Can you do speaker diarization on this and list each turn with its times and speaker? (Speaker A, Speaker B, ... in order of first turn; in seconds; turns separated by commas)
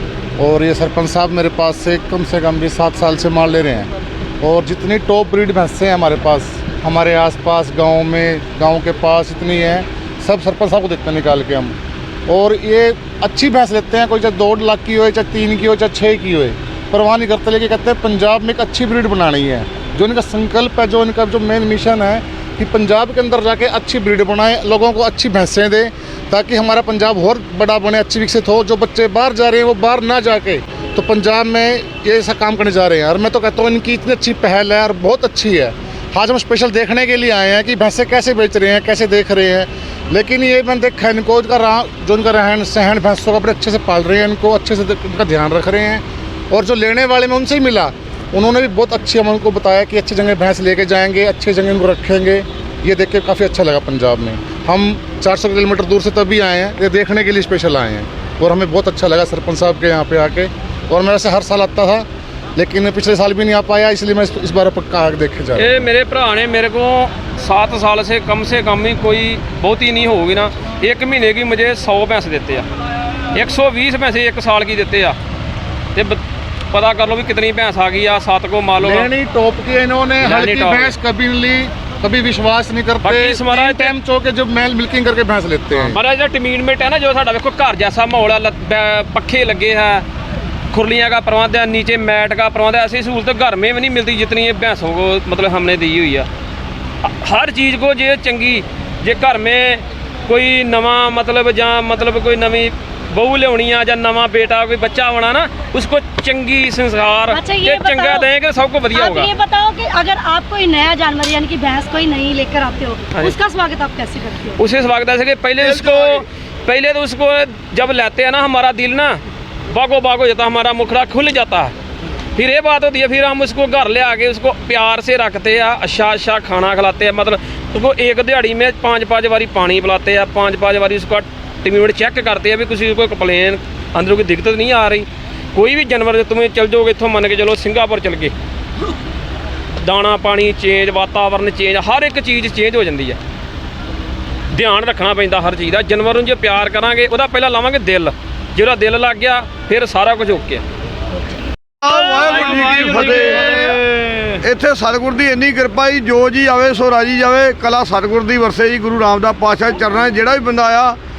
Speaker A: 0.4-11.7, Speaker A: 12.3-62.0, Speaker A: 62.6-65.7, Speaker B: 65.5-72.6, Speaker B: 73.3-75.2, Speaker B: 75.9-76.2, Speaker B: 76.7-79.1, Speaker A: 78.8-86.0, Speaker B: 80.2-81.0, Speaker B: 83.0-84.0, Speaker B: 85.7-90.0, Speaker B: 90.7-96.3, Speaker B: 97.0-109.3, Speaker C: 107.3-108.3, Speaker C: 108.9-114.6, Speaker B: 114.6-121.7, Speaker B: 122.3-138.3, Speaker B: 139.8-143.2, Speaker B: 144.5-150.6, Speaker D: 151.8-153.6, Speaker B: 151.8-154.2, Speaker D: 154.4-161.0